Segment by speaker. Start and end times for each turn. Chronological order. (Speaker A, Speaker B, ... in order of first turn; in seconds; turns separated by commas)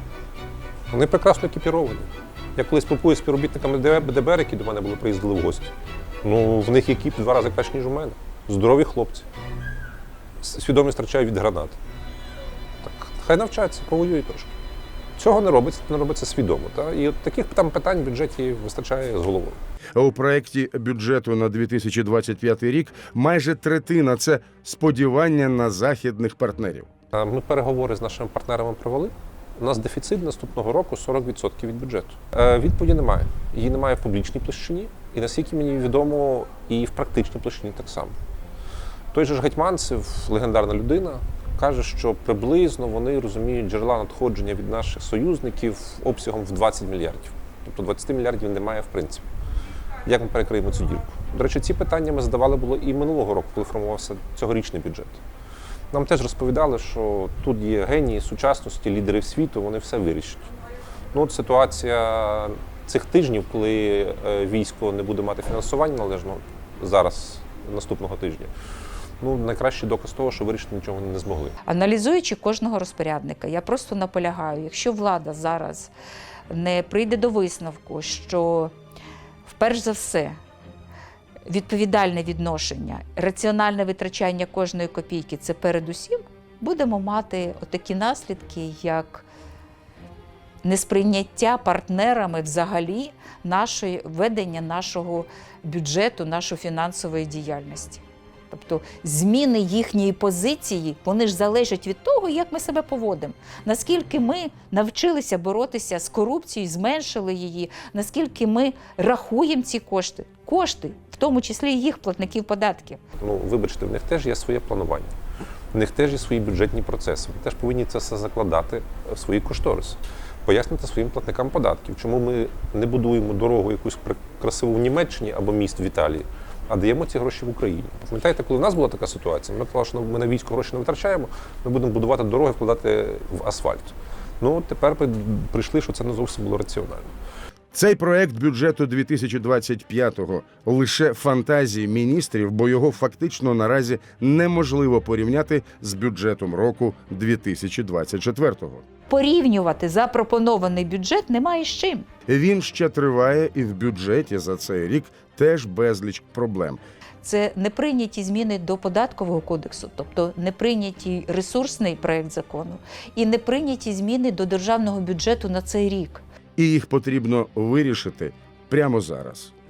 Speaker A: 0.9-5.7, Speaker A: 6.2-9.2, Speaker A: 10.4-11.8, Speaker A: 12.8-14.5, Speaker A: 15.2-19.6, Speaker B: 19.9-26.9, Speaker A: 27.1-38.1, Speaker A: 39.1-49.2, Speaker A: 50.1-55.2, Speaker A: 55.9-60.5, Speaker A: 61.1-68.5, Speaker A: 69.2-71.6, Speaker C: 71.7-75.9, Speaker C: 76.5-78.7, Speaker C: 79.5-80.4, Speaker C: 81.5-89.3, Speaker C: 90.6-113.0, Speaker A: 113.2-115.2, Speaker A: 115.7-137.1, Speaker B: 137.7-148.8, Speaker C: 149.1-152.1, Speaker B: 152.3-156.8, Speaker C: 157.2-166.2, Speaker B: 166.6-169.5